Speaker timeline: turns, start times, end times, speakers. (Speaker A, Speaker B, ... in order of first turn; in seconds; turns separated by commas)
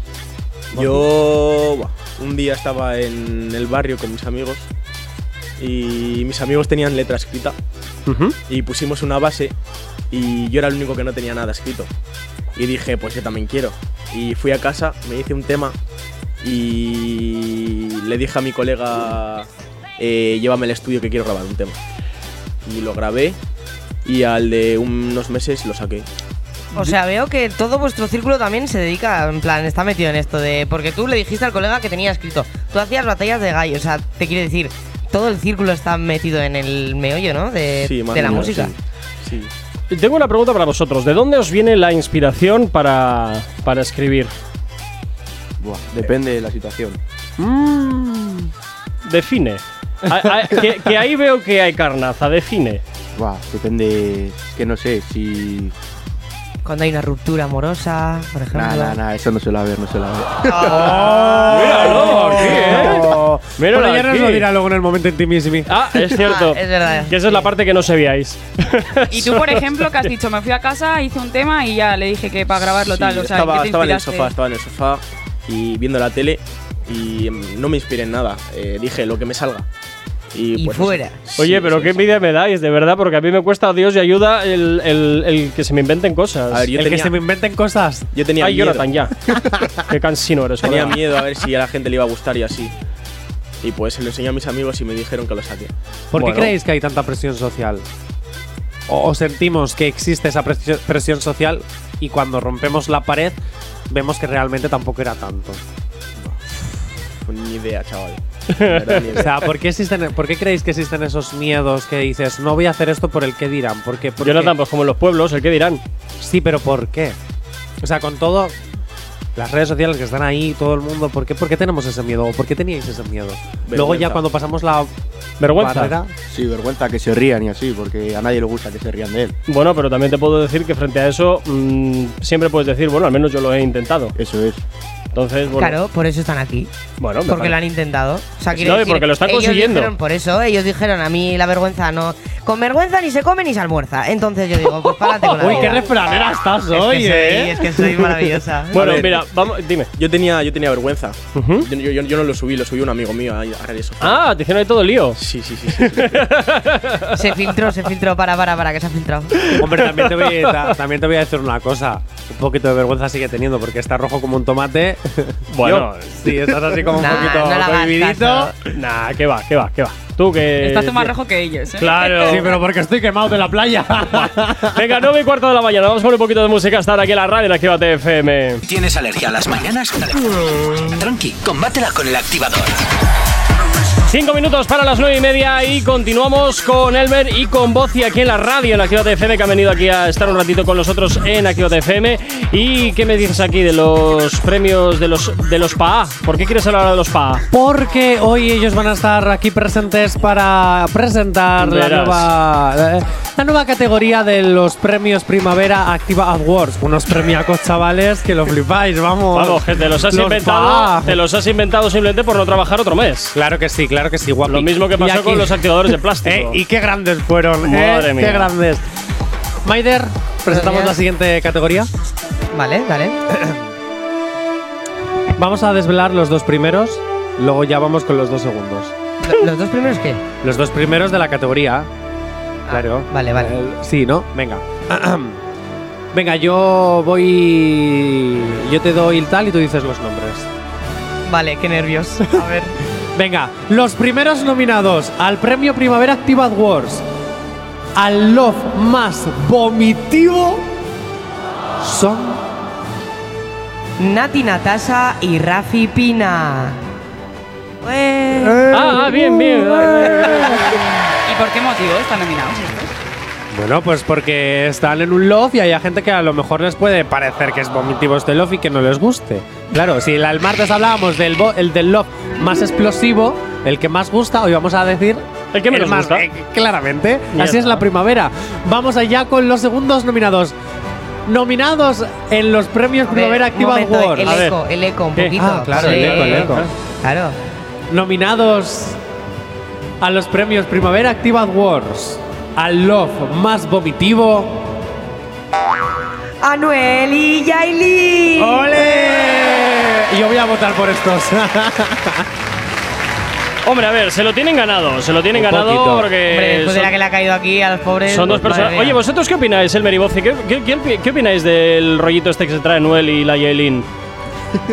Speaker A: 0.7-4.7, Speaker A: 5.6-7.6, Speaker B: 8.1-8.4, Speaker A: 8.5-9.5, Speaker A: 10.1-11.9, Speaker A: 12.6-15.8, Speaker A: 16.4-21.8, Speaker A: 22.6-23.4, Speaker A: 24.0-26.1, Speaker C: 26.7-38.7, Speaker A: 37.8-39.5, Speaker B: 39.9-44.3, Speaker D: 45.6-47.0, Speaker E: 47.4-48.5, Speaker B: 49.0-52.8, Speaker D: 53.1-55.7, Speaker C: 56.6-59.0, Speaker D: 58.5-60.9, Speaker C: 60.5-62.5, Speaker E: 60.6-65.8, Speaker B: 61.4-64.5, Speaker B: 65.7-70.1, Speaker C: 66.2-67.5, Speaker F: 69.1-74.3, Speaker A: 72.8-79.7, Speaker A: 80.3-82.0, Speaker C: 80.5-81.2, Speaker B: 81.4-86.7, Speaker A: 86.5-87.2, Speaker E: 86.7-88.1, Speaker A: 88.1-88.9, Speaker B: 88.4-91.0, Speaker A: 90.6-92.7, Speaker A: 93.6-95.7, Speaker E: 96.1-97.8, Speaker B: 96.2-96.5, Speaker E: 98.9-103.4, Speaker E: 103.9-105.6, Speaker A: 107.2-109.4, Speaker B: 108.5-109.2, Speaker E: 109.1-114.5, Speaker B: 114.2-115.8, Speaker E: 116.2-117.2, Speaker E: 117.8-118.5, Speaker E: 119.3-126.1, Speaker A: 123.7-124.2, Speaker B: 125.4-125.9, Speaker D: 126.3-129.3, Speaker B: 129.5-134.2, Speaker D: 134.2-134.6, Speaker B: 135.1-135.8, Speaker C: 135.5-136.7, Speaker B: 137.0-137.6, Speaker C: 137.2-145.9, Speaker B: 138.5-139.9, Speaker E: 145.4-148.2, Speaker C: 146.7-149.0, Speaker B: 148.7-149.9, Speaker A: 148.7-149.2, Speaker A: 149.9-154.2, Speaker B: 151.3-151.7, Speaker B: 154.0-155.2, Speaker A: 155.2-156.3, Speaker B: 155.8-157.2, Speaker C: 157.1-159.5, Speaker B: 159.5-160.6, Speaker E: 159.5-168.5, Speaker B: 165.5-166.2, Speaker C: 166.9-168.5, Speaker B: 168.7-171.1, Speaker F: 170.6-172.5, Speaker B: 171.8-172.5, Speaker E: 172.2-174.8, Speaker B: 174.6-178.6, Speaker G: 178.6-182.8, Speaker B: 184.1-197.4, Speaker E: 197.5-211.2, Speaker B: 201.6-202.3, Speaker B: 209.3-213.3, Speaker E: 213.3-218.8, Speaker B: 214.4-216.6, Speaker B: 217.6-218.5, Speaker E: 219.6-221.9, Speaker C: 220.5-220.9, Speaker C: 222.5-223.2, Speaker E: 223.3-223.6, Speaker E: 225.4-228.9, Speaker C: 229.2-230.2, Speaker E: 230.4-231.9, Speaker C: 232.7-233.5, Speaker E: 232.7-235.4, Speaker E: 236.1-240.5, Speaker C: 241.2-242.7, Speaker E: 243.1-247.0, Speaker E: 247.9-250.7, Speaker E: 251.8-252.4, Speaker C: 254.0-256.8, Speaker C: 257.8-258.6, Speaker E: 258.4-260.6, Speaker B: 258.7-260.7, Speaker F: 261.3-262.9, Speaker E: 263.5-280.6, Speaker B: 275.5-276.2, Speaker B: 277.3-277.8, Speaker E: 281.2-284.3, Speaker C: 283.1-287.4, Speaker B: 284.2-284.6, Speaker B: 285.1-286.7, Speaker E: 285.4-286.7, Speaker E: 287.9-289.0, Speaker E: 290.0-294.6, Speaker C: 296.4-298.7, Speaker E: 298.4-302.3, Speaker B: 303.6-306.9, Speaker E: 305.3-306.1, Speaker C: 306.3-309.0, Speaker B: 308.0-313.9